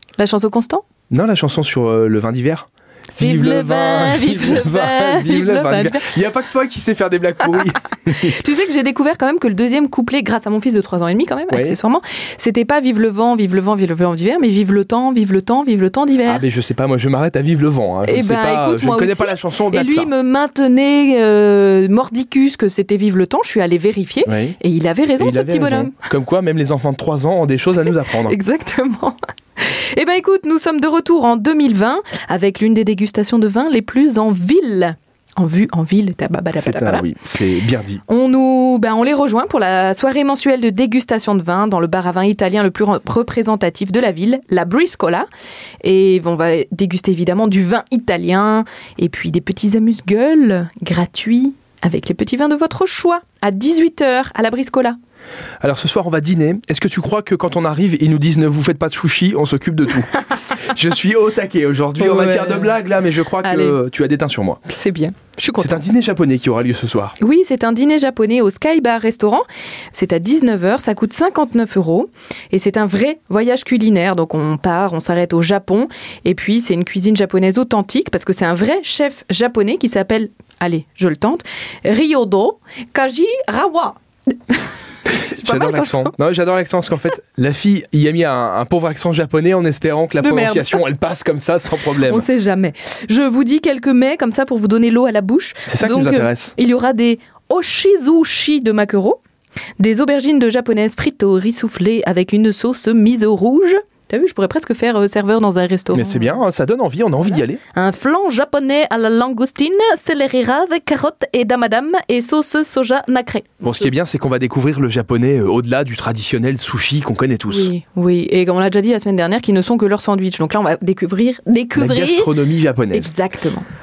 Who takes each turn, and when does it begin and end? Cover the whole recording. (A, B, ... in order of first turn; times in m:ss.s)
0:00.2-0:00.9 A
0:01.1-0:08.4 B
0:03.2-0:06.1 A
0:07.4-0:16.4 A
0:11.5-0:11.8 B
0:16.3-0:20.1 B
0:18.1-0:26.0 A
0:24.3-0:24.6 B
0:25.2-0:28.4 B
0:27.9-0:37.1 A
0:36.6-0:38.0 B
0:38.1-0:45.3 A
0:45.8-0:55.0 A
0:55.6-1:04.6 B
1:02.0-1:02.7 A
1:03.4-1:03.8 A
1:04.7-1:05.8 A
1:05.6-1:07.2 B
1:07.2-1:24.0 A
1:25.2-1:32.3 B
1:25.2-1:26.1 A
1:30.2-1:30.8 A
1:32.0-1:39.2 A
1:35.7-1:36.5 B
1:39.8-1:46.4 A
1:45.9-1:47.6 B
1:47.7-1:53.6 A
1:53.6-1:57.7 B
1:57.5-2:02.3 A
2:01.8-2:03.1 B
2:02.9-2:03.7 A